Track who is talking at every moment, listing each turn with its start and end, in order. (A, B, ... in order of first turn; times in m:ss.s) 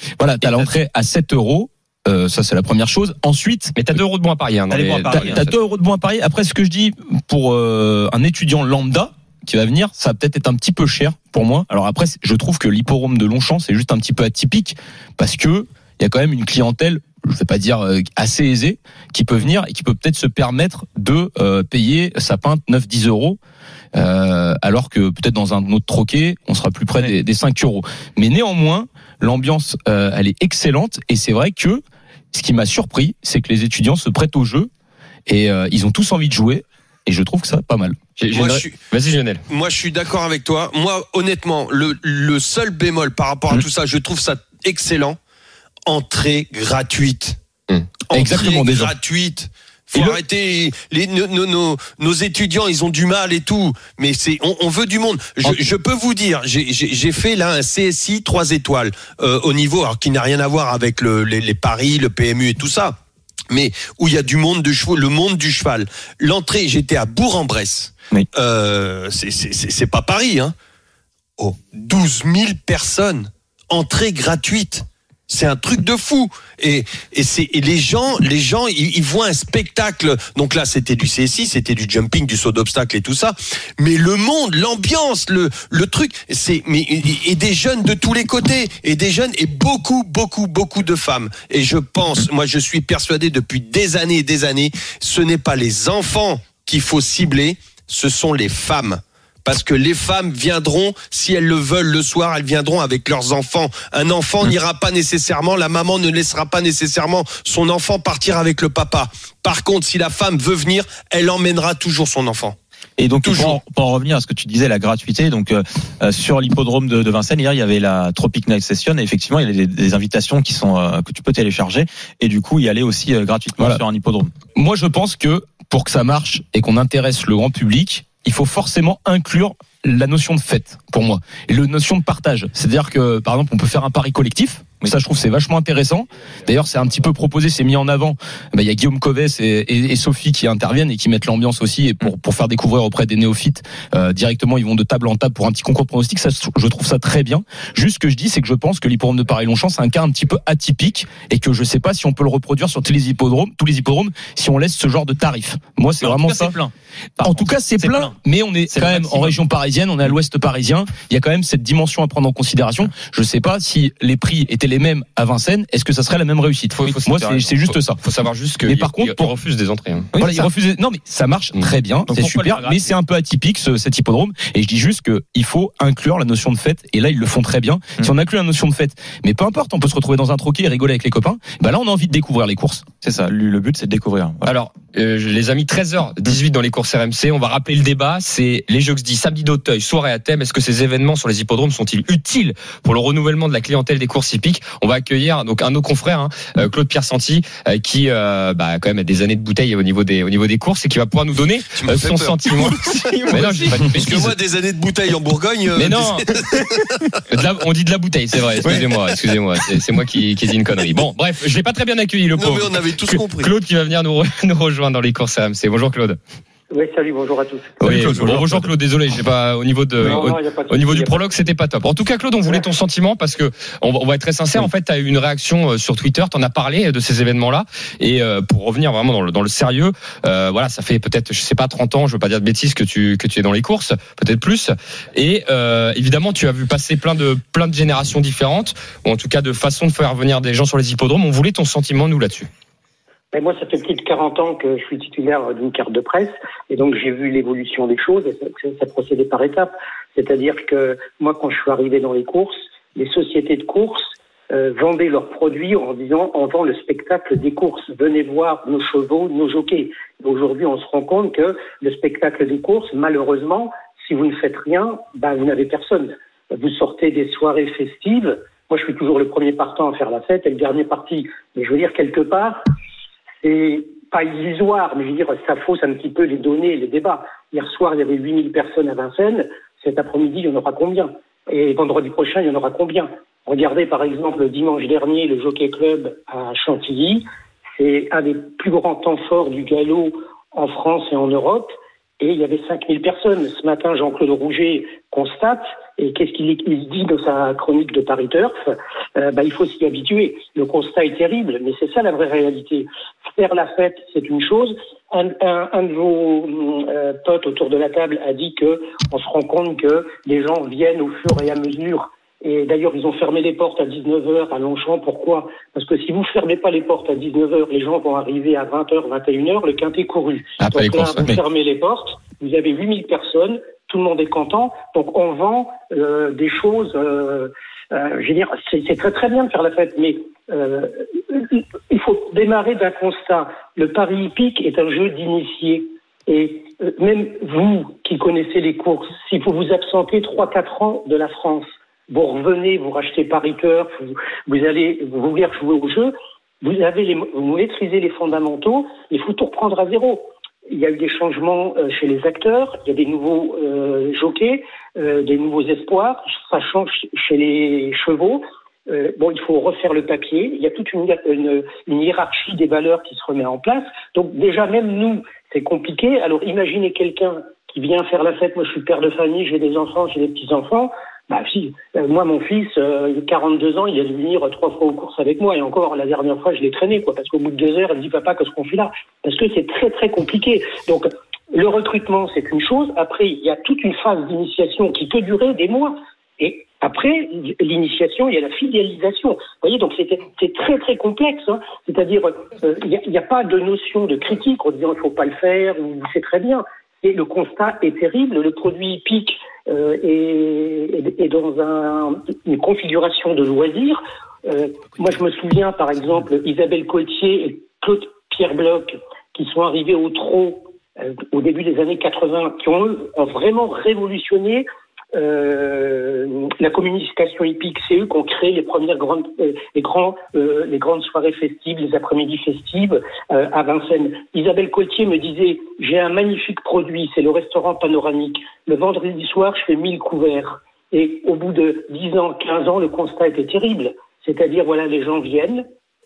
0:00.2-0:03.8 A
0:00.4-0:00.7 B
0:03.8-0:05.5 B
0:04.7-0:05.5 C
0:05.1-0:23.4 A
0:23.9-0:31.8 A
0:32.3-0:34.7 A
0:35.3-0:38.0 A
0:38.2-0:39.4 B
0:38.3-0:38.8 D
0:39.5-0:45.2 D
0:45.9-0:47.4 D
0:48.1-1:03.0 D
0:48.1-0:48.9 A
1:03.5-1:10.5 D
1:11.4-1:52.6 D
1:53.0-2:04.3 C
1:53.2-1:53.6 D
2:04.6-2:36.5 A
2:36.0-2:38.2 C
2:37.2-2:48.0 A
2:38.7-2:39.4 C
2:46.8-2:50.1 B
2:48.6-2:49.3 A
2:50.1-2:50.5 C
2:50.2-3:02.8 A
2:52.1-2:52.9 C
3:03.0-3:04.5 C
3:04.4-3:24.4 B
3:21.8-3:27.2 D
3:25.8-3:26.3 B
3:27.3-3:36.2 B
3:32.4-3:33.5 D
3:36.7-3:37.8 E
3:37.8-4:02.5 B
3:37.9-3:38.6 C
3:38.0-3:38.3 D
3:40.0-3:41.2 E
4:03.3-4:32.6 E
4:33.4-7:15.7 E
5:20.6-5:21.3 B